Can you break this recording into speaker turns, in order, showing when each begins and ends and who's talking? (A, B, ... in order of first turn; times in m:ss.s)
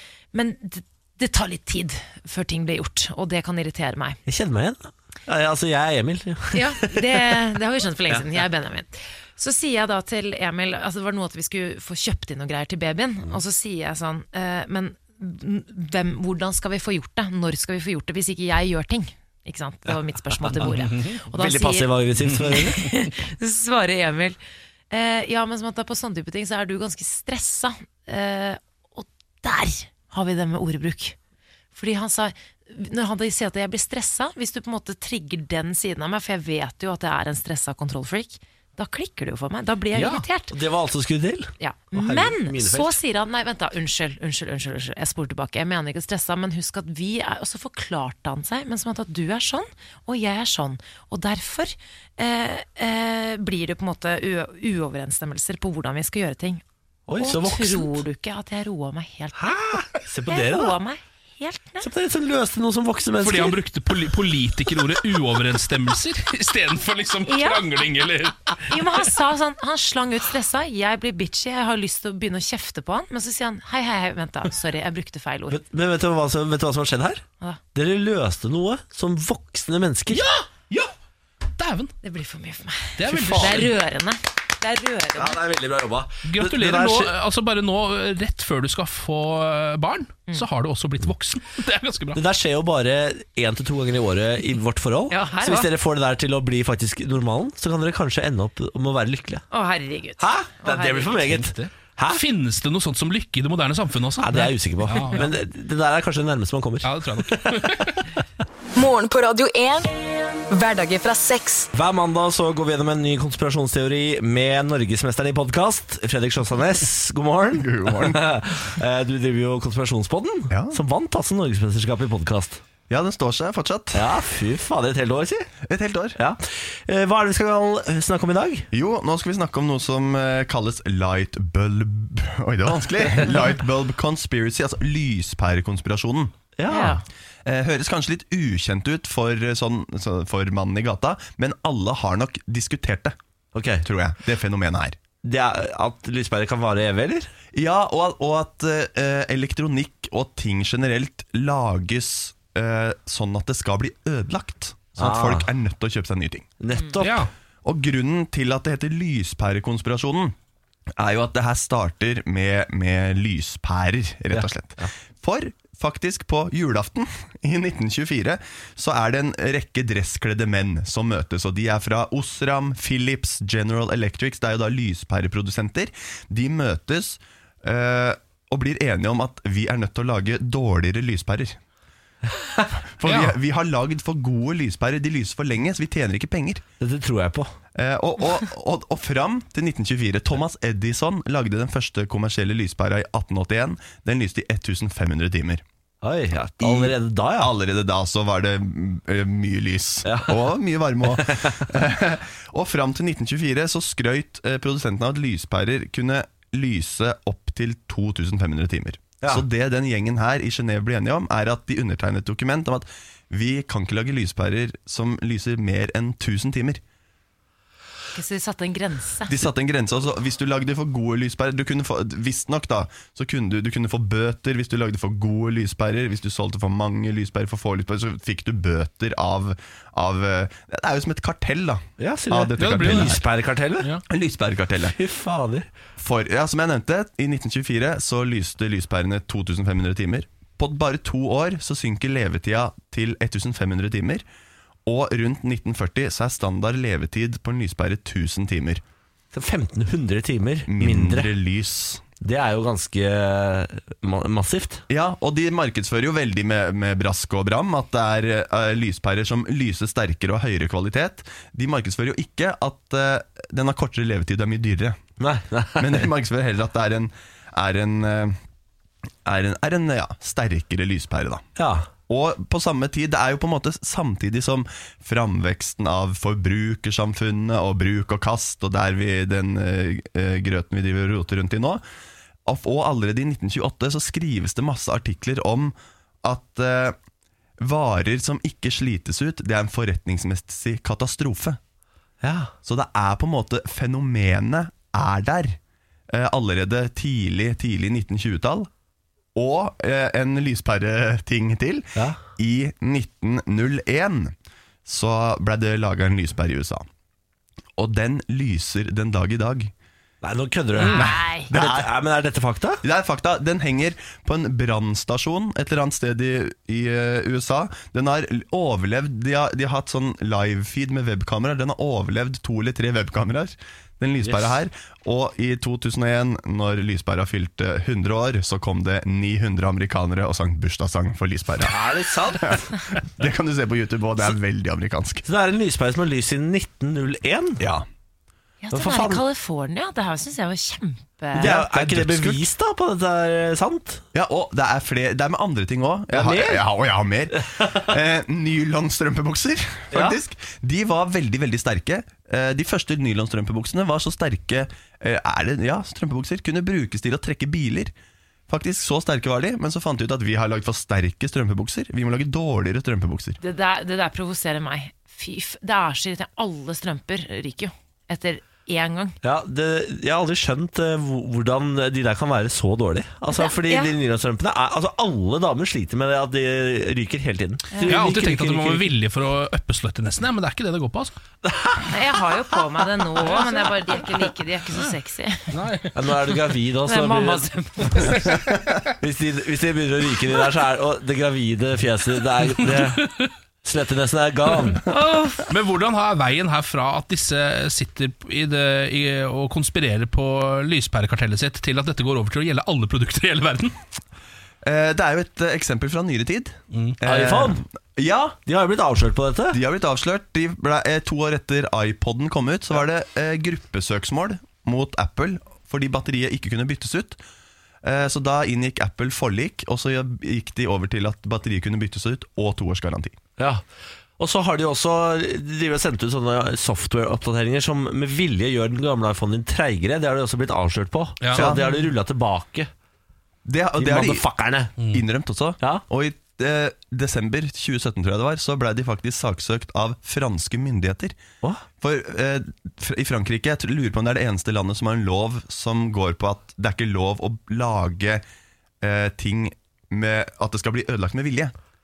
0:00.3-0:04.2 A
0:04.3-0:07.4 B
0:06.5-0:21.9 A
0:20.4-0:20.7 B
0:20.8-0:21.2 C
0:21.3-0:22.8 B
0:22.5-0:24.4 A
0:24.9-0:31.2 A
0:31.8-0:40.5 A
0:39.9-0:43.0 B
0:41.6-0:56.6 A
0:57.1-0:58.0 B
0:57.2-0:59.7 A
0:59.4-1:00.8 B
1:00.3-1:01.9 A
1:01.8-1:03.6 B
1:03.2-1:08.7 C
1:07.3-1:07.6 A
1:08.7-1:15.6 A
1:15.5-1:17.2 B
1:17.8-1:20.3 B
1:20.1-1:20.9 C
1:21.6-1:21.9 C
1:22.0-1:25.4 A
1:23.0-1:23.7 C
1:23.1-1:23.7 B
1:25.2-1:27.1 B
1:26.2-1:32.2 C
1:32.2-1:39.4 B
1:35.1-1:35.7 A
1:39.5-1:41.4 A
1:40.2-1:42.2 B
1:41.3-1:45.3 C
1:44.2-1:47.7 B
1:46.8-1:48.1 C
1:48.8-1:49.9 D
1:50.5-1:51.7 D
1:51.7-2:02.6 B
1:57.6-1:58.2 E
2:00.5-2:00.8 E
2:02.9-2:04.1 E
2:03.9-2:05.5 B
2:05.7-2:06.2 E
2:06.2-2:08.7 B
2:08.7-2:16.3 E
2:16.6-2:17.0 B
2:16.7-2:17.0 A
2:17.4-2:23.2 E
2:23.5-2:23.8 B
2:23.8-2:25.0 E
2:25.2-2:27.3 B
2:27.5-2:36.5 E
2:35.0-2:35.5 B
2:36.6-2:37.3 B
2:37.0-2:37.3 C
2:37.6-2:40.4 E
2:41.0-3:01.6 E
2:44.3-2:44.9 B
3:02.4-3:02.7 B
3:03.0-3:06.6 E
3:03.1-3:03.4 C
3:06.8-3:07.5 B
3:07.8-3:15.6 E
3:16.0-3:17.5 B
3:16.6-3:36.8 E
3:20.0-3:20.5 B
3:21.0-3:21.6 B
3:38.1-3:39.3 A
3:39.3-3:53.2 E
3:52.0-3:53.9 B
3:52.6-3:53.2 C
3:54.1-3:55.0 E
3:54.9-3:55.7 B
3:56.0-4:04.2 E
4:04.9-4:08.8 E
4:09.3-4:11.3 B
4:10.7-4:12.0 E
4:12.2-4:14.8 B
4:14.9-4:25.0 E
4:25.2-4:26.1 B
4:25.8-4:28.4 E
4:29.2-4:31.5 E
4:31.6-4:31.9 B
4:32.1-4:41.8 E
4:42.5-4:47.0 E
4:47.6-4:51.6 E
4:52.2-4:52.5 B
4:52.6-4:55.6 E
4:56.1-4:58.7 E
4:59.4-5:04.3 E
5:04.8-5:06.9 E
5:07.8-5:09.7 E
5:10.2-5:12.8 B
5:10.8-5:11.5 A
5:10.9-5:11.9 E
5:12.8-5:31.8 E
5:24.2-5:24.6 B
5:31.6-5:32.6 B
5:33.2-5:35.2 E
5:35.3-5:37.6 B
5:37.6-5:37.8 E
5:38.6-5:41.5 A
5:38.7-5:39.2 B
5:41.4-5:44.0 B
5:41.4-5:42.4 E
5:44.1-5:57.9 E
5:46.1-5:46.6 B
5:47.5-5:47.8 B
5:49.9-5:50.2 B
5:58.5-6:03.4 E
6:03.4-6:09.2 A
6:09.2-6:18.9 B
6:13.3-6:13.9 A
6:17.7-6:18.1 A
6:17.9-6:21.1 C
6:21.4-6:22.6 B
6:21.9-6:25.5 A
6:23.2-6:23.6 B
6:25.5-6:25.9 C
6:25.9-6:28.3 B
6:26.9-6:28.2 A
6:29.0-6:33.1 B
6:32.6-6:33.3 C
6:33.6-6:34.8 B
6:34.9-6:35.4 A
6:35.5-6:43.8 C
6:44.6-6:48.4 E
6:47.0-6:47.6 B
6:48.4-6:49.6 B
6:49.5-6:57.2 E
6:57.8-7:03.2 E
7:03.4-7:03.6 B
7:04.2-7:12.7 B
7:11.4-7:11.6 E
7:13.5-7:14.3 E
7:13.8-7:14.8 B
7:14.8-7:21.2 E
7:21.8-7:28.2 E
7:28.8-7:31.5 E